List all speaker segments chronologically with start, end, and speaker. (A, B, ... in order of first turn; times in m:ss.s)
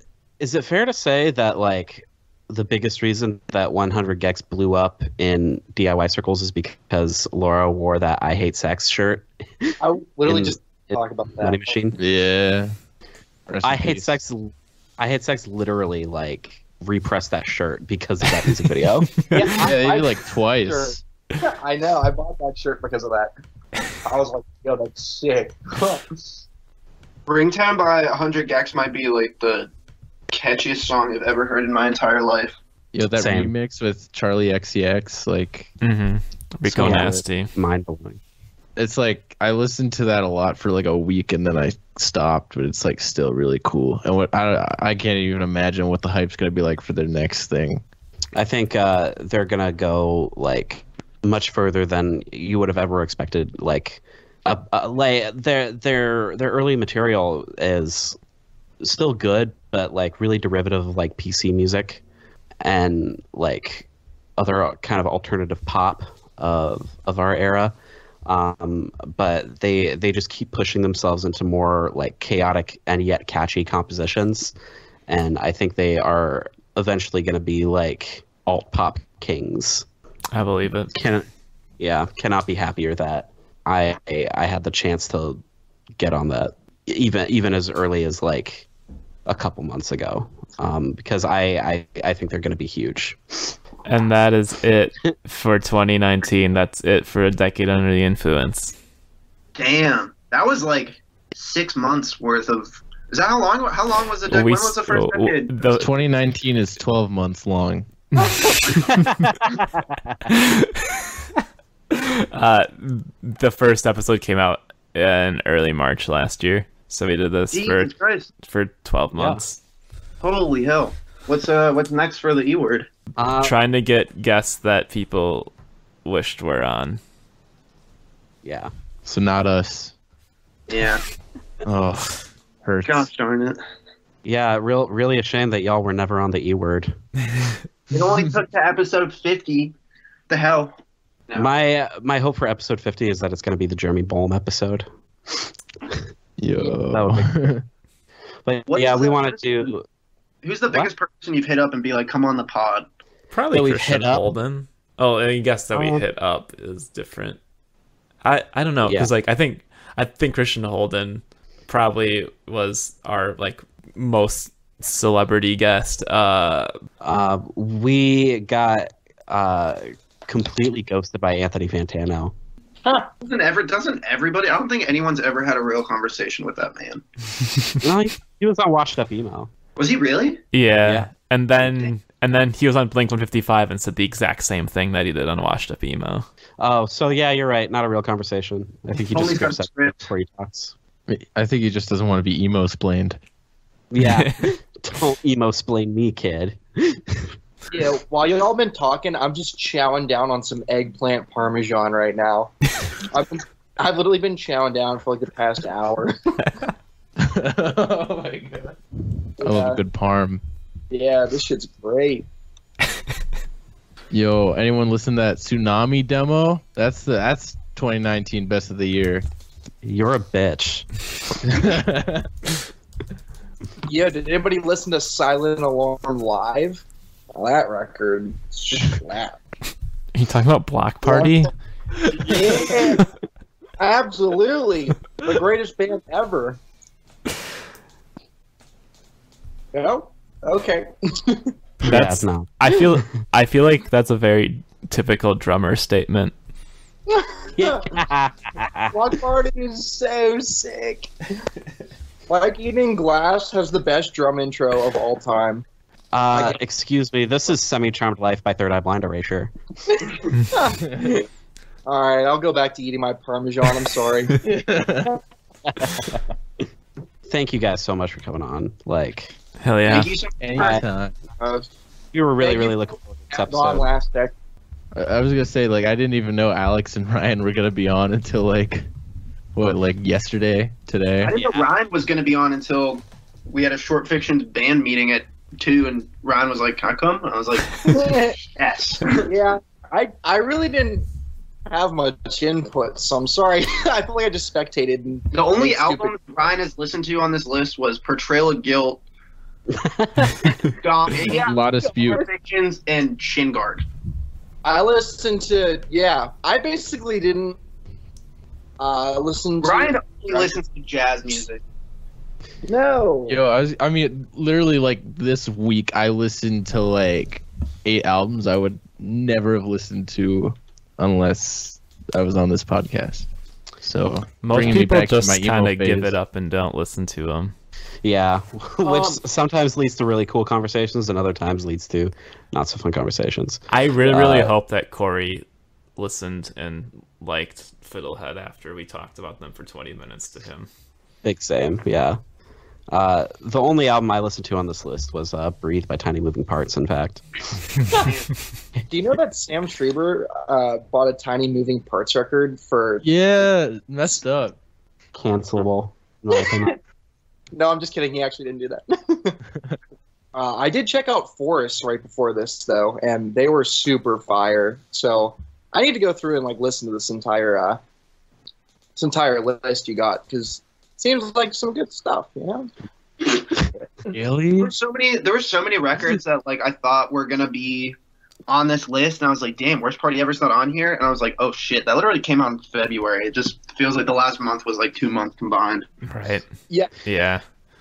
0:00.4-0:09.8 A
0:09.8-0:11.6 B
0:10.3-0:12.0 A
0:12.0-0:12.7 C
0:13.5-0:14.2 C
0:13.6-0:19.1 A
0:19.3-0:23.3 B
0:19.6-0:21.0 C
0:24.0-0:26.1 B
0:27.3-0:29.7 D
0:30.3-0:32.6 D
0:32.9-0:35.7 C
0:33.2-0:33.5 A
0:35.8-0:37.5 E
0:36.6-0:37.2 C
0:36.8-0:38.2 A
0:38.8-0:47.8 C
0:48.4-0:58.2 A
0:58.8-1:02.0 A
1:02.6-1:07.8 A
1:08.3-1:14.6 A
1:15.1-1:19.9 A
1:20.3-1:20.9 E
1:20.9-1:21.3 A
1:21.8-1:25.4 A
1:26.0-1:28.7 A
1:29.3-1:33.6 A
1:33.9-1:38.8 E
1:39.6-1:45.7 D
1:44.3-1:45.9 E
1:45.7-1:47.9 C
1:48.2-1:49.2 E
1:48.9-1:50.3 A
1:50.3-1:51.0 E
1:51.9-1:57.9 E
1:57.5-1:58.3 D
1:58.4-1:59.6 E
1:59.2-1:59.4 A
2:00.2-2:02.9 D
2:03.2-2:03.6 A
2:03.4-2:05.5 E
2:06.0-2:07.0 E
2:08.4-2:08.7 A
2:09.1-2:10.0 C
2:10.7-2:11.0 D
2:11.6-2:13.1 C
2:12.8-2:13.6 D
2:14.2-2:17.0 A
2:17.9-2:19.8 D
2:20.3-2:20.7 D
2:21.4-2:26.0 A
2:26.4-2:27.6 C
2:26.6-2:27.3 A
2:28.5-2:29.9 A
2:28.7-2:29.7 D
2:30.4-2:32.9 D
2:33.3-2:37.4 E
2:33.5-2:34.2 A
2:35.7-2:36.0 A
2:38.2-2:46.7 E
2:38.8-2:39.1 A
2:47.0-2:52.3 A
2:53.2-2:57.0 D
2:57.8-2:59.5 A
2:59.8-3:00.4 D
3:00.5-3:06.3 E
3:00.8-3:01.1 A
3:06.6-3:10.7 A
3:09.1-3:10.1 D
3:11.1-3:13.2 C
3:13.9-3:17.3 A
3:14.0-3:14.5 E
3:17.7-3:22.5 B
3:23.1-3:26.5 B
3:27.2-3:28.8 C
3:29.4-3:29.8 B
3:29.4-3:30.4 C
3:30.9-3:32.3 B
3:34.1-3:39.2 C
3:39.8-3:40.9 A
3:41.4-3:42.3 C
3:43.9-3:46.8 B
3:47.4-3:49.4 B
3:50.1-3:51.5 E
3:51.0-3:51.5 B
3:52.1-3:53.1 B
3:53.8-3:56.6 B
3:59.7-4:01.5 B
4:01.8-4:02.5 A
4:01.9-4:06.3 E
4:07.1-4:08.0 B
4:07.6-4:09.0 A
4:08.9-4:11.1 B
4:12.3-4:15.6 B
4:16.1-4:19.5 A
4:20.0-4:21.3 B
4:21.9-4:24.4 B
4:24.4-4:25.1 C
4:25.8-4:26.2 A
4:27.3-4:29.4 A
4:29.6-4:30.1 E
4:29.8-4:30.8 D
4:30.4-4:31.1 C
4:30.6-4:30.8 A
4:31.4-4:31.7 B
4:32.1-4:33.9 A
4:32.4-4:32.7 B
4:33.3-4:34.3 B
4:35.0-4:38.9 C
4:39.6-4:41.4 C
4:41.2-4:49.3 D
4:41.3-4:41.7 A
4:47.9-4:48.5 B
4:49.3-4:51.1 B
4:51.7-4:56.2 B
4:55.3-4:59.0 D
4:59.7-5:00.5 A
5:00.8-5:03.8 D
5:01.3-5:02.2 B
5:01.3-5:02.2 C
5:04.6-5:07.6 B
5:08.8-5:10.6 B
5:09.6-5:11.6 D
5:12.6-5:13.4 B
5:13.3-5:23.3 C
5:23.8-5:26.2 C
5:24.4-5:27.5 E
5:28.0-5:34.5 A
5:28.8-5:29.2 D
5:33.7-5:35.4 E
5:36.0-5:40.7 E
5:41.2-5:42.2 A
5:42.9-5:47.2 A
5:47.9-5:48.2 B
5:48.9-5:53.0 B
5:53.0-5:54.6 C
5:55.2-5:56.8 A
5:56.4-5:56.8 B
5:57.5-5:59.4 B
6:00.3-6:07.8 B
6:09.0-6:12.7 B
6:14.1-6:14.7 C
6:14.6-6:18.0 D
6:18.5-6:25.9 D
6:26.0-6:26.5 E
6:27.0-6:27.4 E